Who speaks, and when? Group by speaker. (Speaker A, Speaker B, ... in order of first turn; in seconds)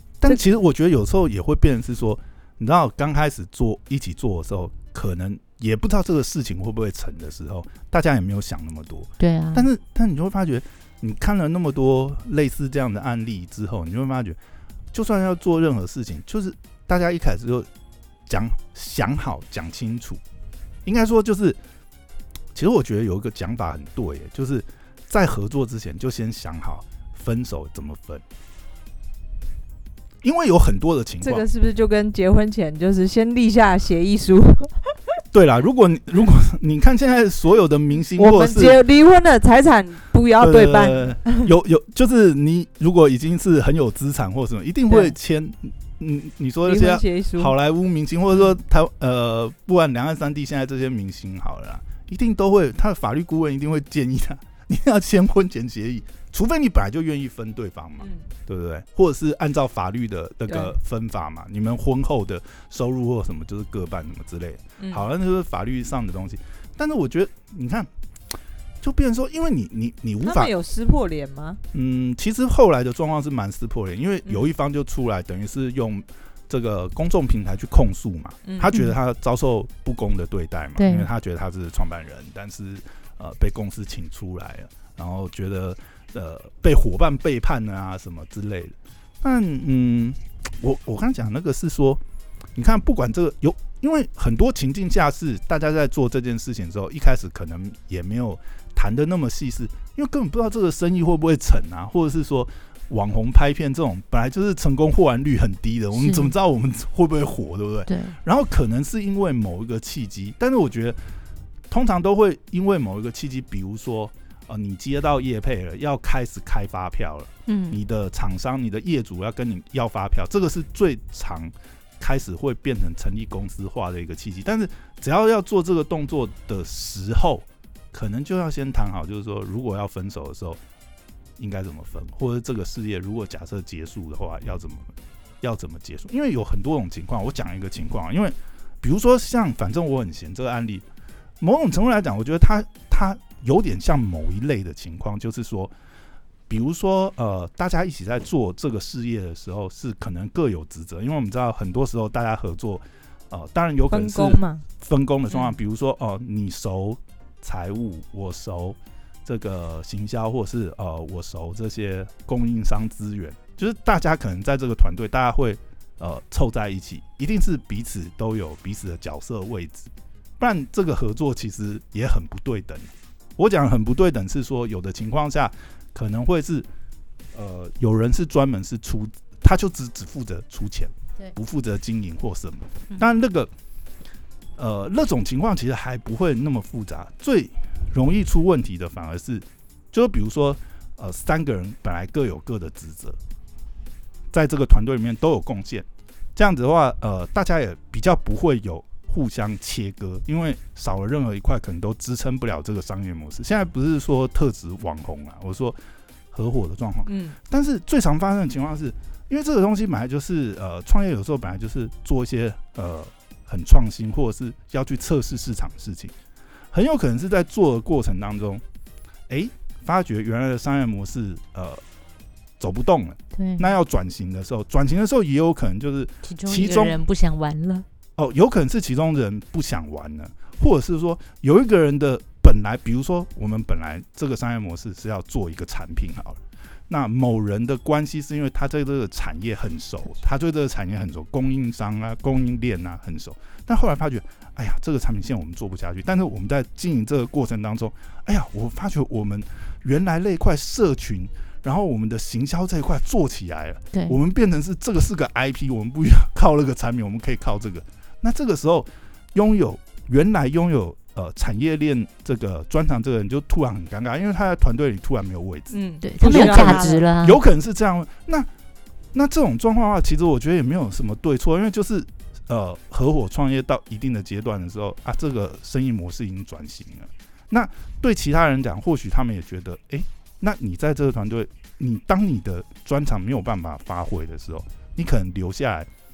Speaker A: 0.2-14.4, 14.9-17.7, 18.3-20.2, 20.9-21.6, 22.5-28.2, 30.2-31.4, 35.3-38.8, 40.4-67.9, 68.8-70.5, 71.7-92.0, 92.5-111.0, 111.7-130.6, 131.4-140.8, 141.4-145.7, 146.5-176.7, 177.3-183.5, 184.6-193.2, 194.3-205.8, 206.3-216.1, 216.7-218.6, 219.3-221.8, 222.6-227.0, 228.2-268.5, 269.1-285.9
Speaker B: 9.2-9.7, 80.8-81.1, 106.0-106.3, 107.9-108.2, 117.5-117.8, 223.4-223.7, 226.2-227.8, 266.0-267.4
Speaker C: 31.2-34.8, 38.1-41.5, 46.6-47.5, 60.5-60.7, 64.8-65.0, 70.2-71.6, 78.5-78.7, 153.9-154.6, 207.1-207.4, 265.7-267.0